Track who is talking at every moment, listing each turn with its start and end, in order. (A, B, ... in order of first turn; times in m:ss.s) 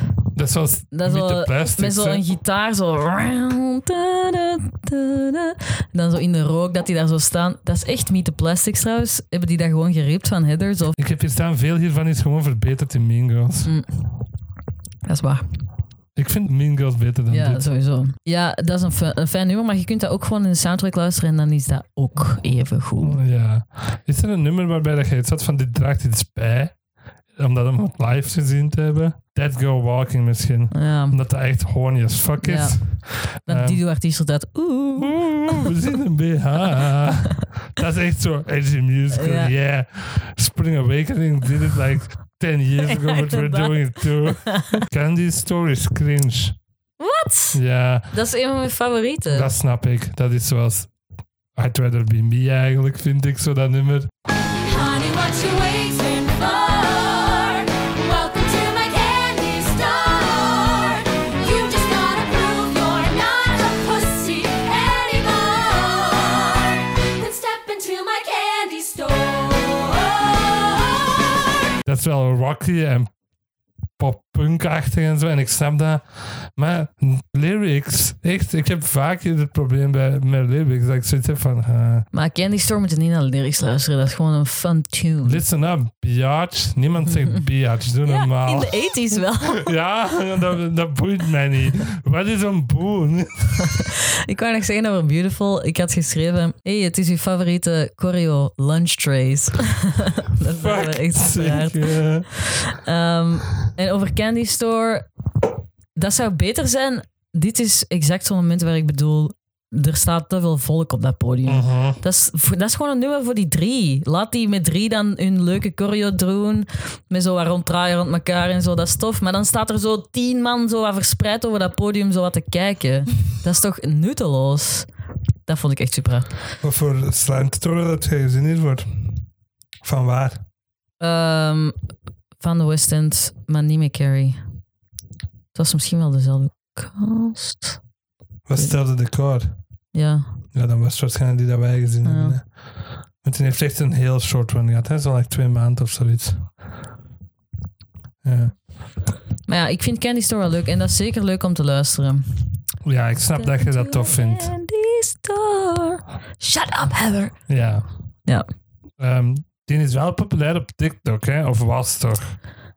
0:00.4-0:02.2 A
0:00.9-0:11.0 B
0:11.0-0:13.7 A
0:13.6-0:13.9 B
0:15.0-0:15.4 B
0:16.2-0:17.7 A
0:17.3-0:23.2 B
0:23.0-0:26.8 A
0:27.3-0:33.8 A
0:30.7-0:31.2 B
0:32.4-0:35.7 B
0:35.0-0:46.6 A
0:39.1-0:39.5 B
0:42.9-0:44.8 B
0:47.0-0:47.6 B
0:47.5-0:48.1 A
0:48.1-0:49.5 B
0:49.3-0:50.9 A
0:51.6-0:54.1 A
0:54.6-1:11.1 C
1:11.8-1:13.1 A
1:14.0-1:22.1 A
1:22.1-1:25.4 B
1:25.2-1:28.8 A
1:28.0-1:29.7 B
1:29.5-1:33.6 A
1:33.8-1:45.1 B
1:40.5-1:42.3 A
1:46.0-2:04.9 B
1:51.5-1:52.0 A
2:05.5-2:06.3 B
2:06.6-2:09.2 A
2:09.8-2:10.4 A
2:11.0-2:11.8 B
2:12.4-2:14.4 B
2:15.5-2:17.8 B
2:18.5-2:19.5 A
2:19.9-2:20.3 B
2:20.5-2:26.6 A
2:22.0-2:22.4 B
2:28.2-2:28.6 A
2:29.5-2:32.5 B
2:32.8-2:34.5 A
2:33.4-2:37.4 B
2:37.5-2:37.8 A
2:39.0-2:42.4 A